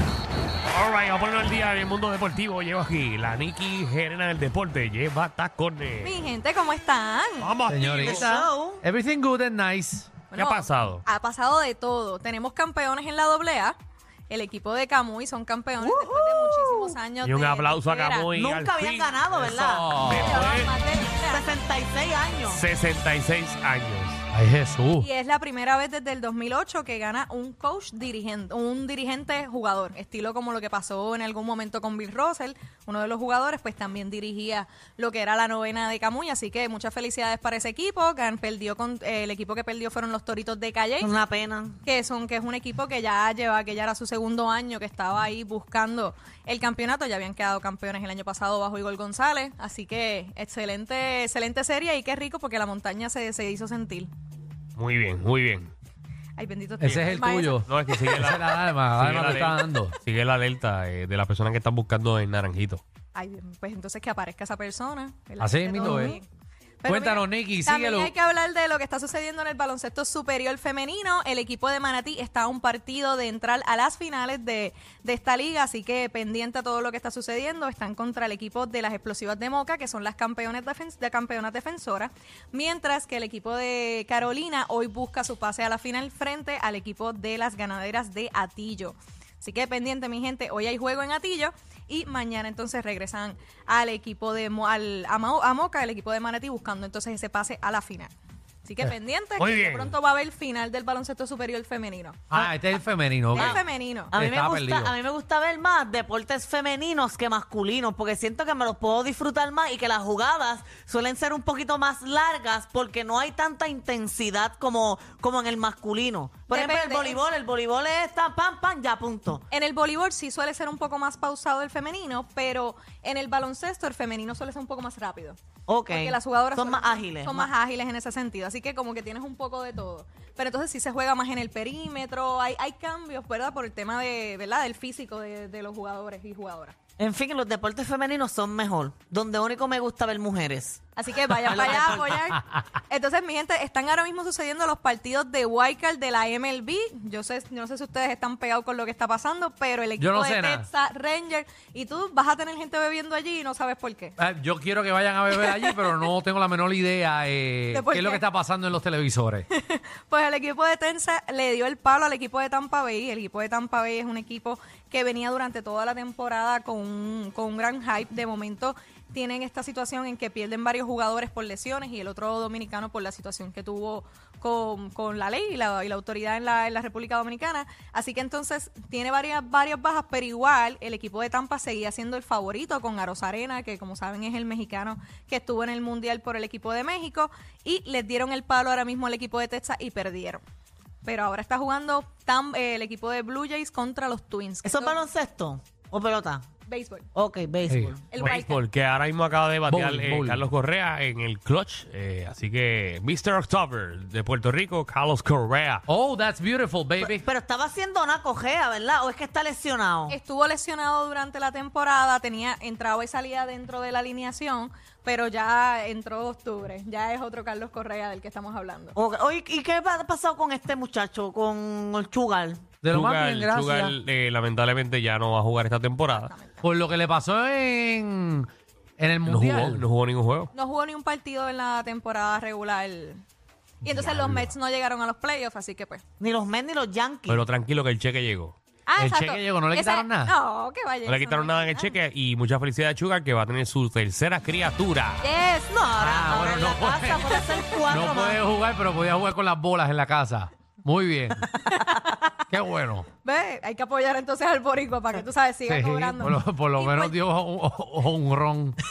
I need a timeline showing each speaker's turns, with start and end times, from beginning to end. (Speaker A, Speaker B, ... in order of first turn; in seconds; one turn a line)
Speaker A: 0.7-6.2
Speaker B: 6.0-7.6
Speaker A: 7.4-8.3
Speaker C: 7.7-10.3
Speaker D: 7.8-8.8
Speaker B: 10.3-13.8
Speaker A: 10.3-11.1
Speaker B: 14.3-18.3
Speaker D: 15.8-16.9
Speaker A: 17.2-19.3
Speaker D: 18.3-19.9
Speaker C: 19.3-20.4
Speaker A: 20.1-20.7
Speaker B: 20.1-21.6
Speaker D: 21.3-22.6
Speaker A: 22.5-24.2
Speaker C: 24.3-25.1
Speaker B: 25.0-41.1
Speaker D: 41.0-41.8
Speaker B: 41.8-54.1
Speaker A: 54.8-55.7
Speaker B: 56.4-57.7
Speaker C: 56.8-60.0
Speaker A: 57.7-62.8
Speaker B: 63.1-66.3
Speaker C: 65.4-66.2
Speaker B: 66.8-98.1
Speaker C: 66.8-68.1
Speaker B: 98.6-102.2
Speaker A: 99.4-100.0
Speaker C: 102.3-105.0
Speaker B: 103.3-104.1
Speaker D: 103.3-103.6
Speaker D: 104.1-119.4
Speaker B: 116.5-117.2
Speaker B: 119.5-125.4
Speaker D: 125.7-127.5
Speaker B: 125.9-136.8
Speaker D: 137.0-142.1
Speaker B: 140.9-154.1
Speaker C: 150.0-150.7
Speaker C: 154.2-159.4
Speaker B: 155.5-155.8
Speaker B: 157.7-158.2
Speaker B: 159.5-190.4
Speaker B: 191.0-195.0
Speaker D: 194.6-196.4
Speaker B: 196.7-197.1
Speaker D: 197.1-198.0
Speaker C: 197.7-197.9
Speaker B: 198.1-198.6
Speaker A: 198.2-205.8
Speaker C: 199.7-200.5
Speaker C: 205.9-207.2
Speaker D: 207.0-210.2
Speaker B: 210.1-219.0
Speaker D: 219.0-222.7
Speaker C: 222.8-224.0
Speaker A: 222.9-226.3
Speaker B: 226.1-226.6
Speaker C: 226.6-229.9
Speaker A: 229.2-230.5
Speaker B: 230.6-233.2
Speaker B: 233.8-236.0
Speaker C: 233.9-234.4
Speaker D: 236.2-237.4
Speaker A: 237.3-238.6
Speaker B: 238.9-241.9
Speaker C: 239.0-240.3
Speaker A: 241.1-245.3
Speaker B: 245.2-245.8
Speaker D: 245.7-248.4
Speaker C: 246.0-251.5
Speaker B: 251.7-252.1
Speaker C: 252.5-253.1
Speaker B: 253.2-257.2
Speaker C: 255.7-258.8